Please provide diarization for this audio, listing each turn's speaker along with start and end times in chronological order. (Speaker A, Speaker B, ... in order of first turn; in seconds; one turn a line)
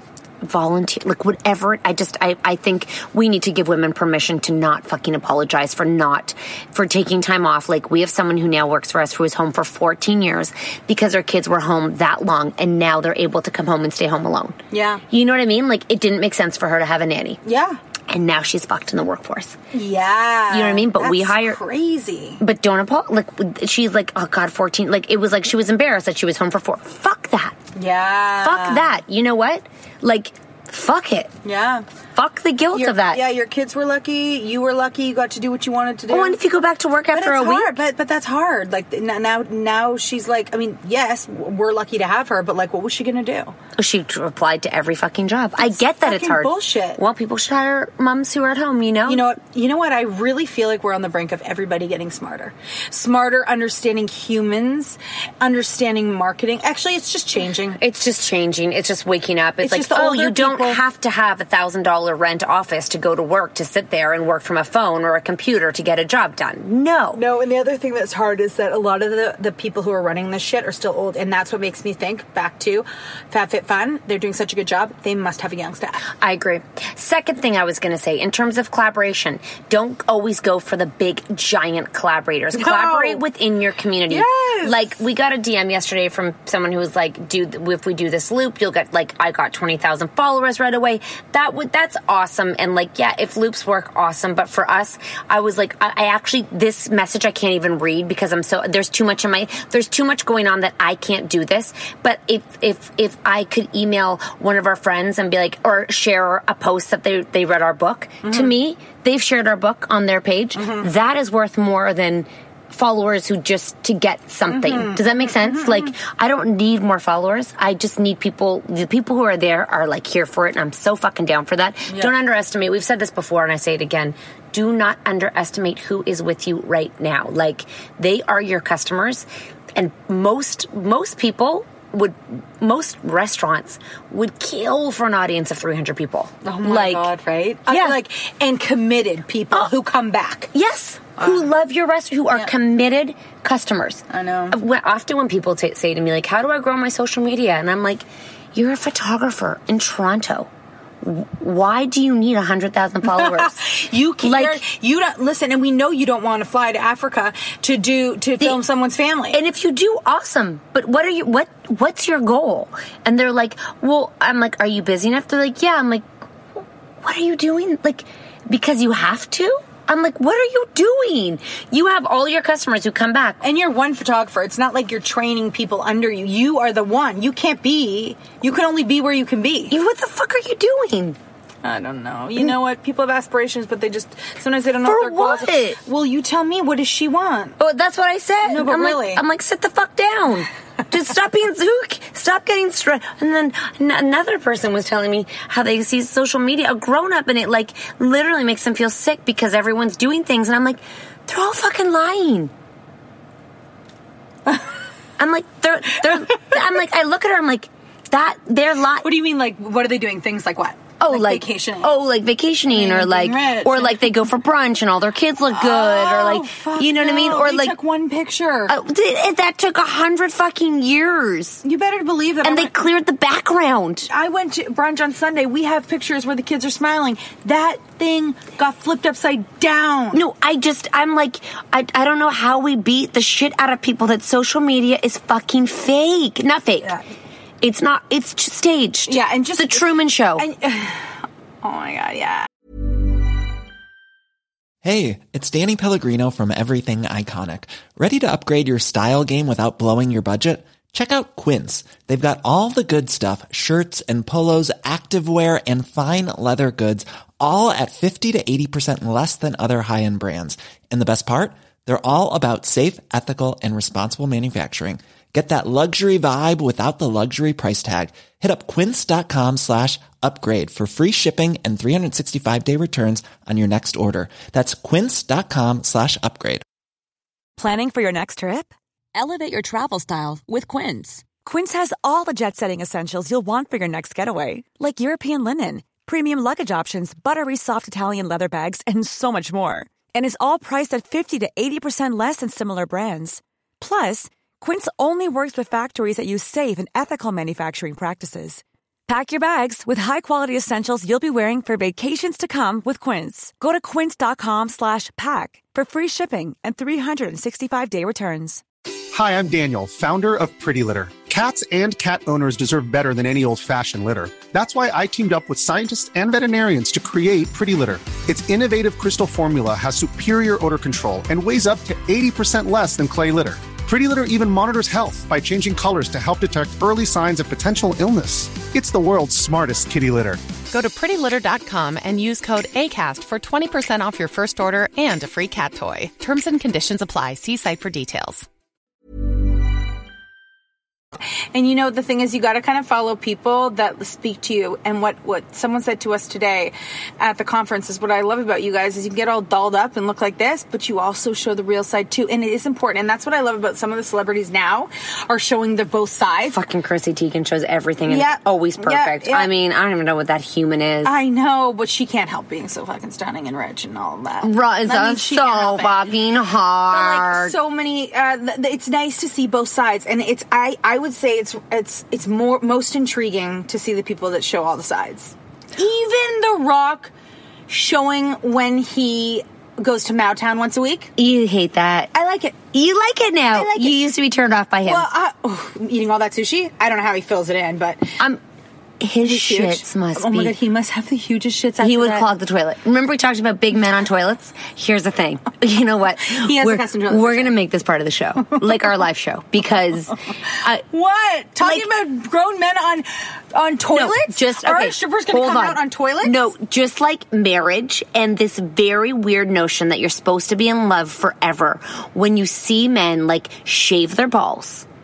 Speaker A: 0.4-14.6
Speaker B: 14.7-15.0
Speaker A: 15.1-17.4
Speaker B: 17.4-17.8
Speaker A: 18.1-19.6
Speaker B: 19.7-22.4
Speaker A: 20.5-21.6
Speaker A: 22.4-27.6
Speaker B: 27.8-29.0
Speaker A: 28.4-31.3
Speaker B: 31.4-31.8
Speaker A: 32.1-33.2
Speaker B: 32.7-36.4
Speaker A: 36.1-37.8
Speaker B: 37.1-43.5
Speaker A: 43.8-49.3
Speaker B: 45.6-47.0
Speaker B: 49.0-57.8
Speaker A: 57.8-67.2
Speaker B: 59.6-60.8
Speaker B: 67.1-76.0
Speaker A: 76.2-137.1
Speaker B: 82.5-83.2
Speaker B: 84.1-84.8
Speaker B: 108.2-108.5
Speaker B: 110.5-110.9
Speaker B: 114.5-115.9
Speaker B: 121.9-122.1
Speaker B: 136.4-140.5
Speaker A: 137.7-138.0
Speaker A: 140.5-150.5
Speaker B: 141.2-141.5
Speaker B: 144.1-144.6
Speaker A: 151.0-153.7
Speaker B: 153.1-159.4
Speaker A: 154.2-154.6
Speaker A: 159.3-166.0
Speaker A: 167.0-173.4
Speaker B: 173.4-179.7
Speaker A: 179.7-181.2
Speaker B: 181.6-187.6
Speaker A: 184.8-185.8
Speaker A: 187.6-202.5
Speaker B: 188.4-189.2
Speaker A: 205.2-209.1
Speaker B: 209.0-211.9
Speaker A: 211.0-217.8
Speaker B: 212.7-214.2
Speaker B: 215.5-218.7
Speaker A: 218.7-221.6
Speaker B: 221.6-222.7
Speaker A: 222.4-224.1
Speaker B: 224.1-230.2
Speaker A: 230.1-236.9
Speaker A: 237.6-240.4
Speaker B: 239.1-242.5
Speaker C: 244.8-276.6
Speaker D: 277.6-308.6
Speaker E: 309.1-330.4
Speaker F: 330.7-338.4
Speaker B: 341.5-356.6
Speaker A: 356.5-361.1
Speaker B: 358.1-359.5
Speaker B: 361.0-366.1
Speaker A: 364.4-367.6
Speaker B: 366.9-377.1
Speaker B: 377.7-381.1
Speaker A: 381.2-382.1
Speaker B: 382.1-382.7
Speaker A: 382.7-385.1
Speaker B: 383.5-384.1
Speaker B: 384.8-388.1
Speaker A: 389.0-390.6
Speaker B: 389.2-392.3
Speaker A: 391.8-400.8
Speaker B: 396.3-397.5
Speaker B: 400.9-406.4
Speaker A: 401.6-401.9
Speaker A: 403.9-414.9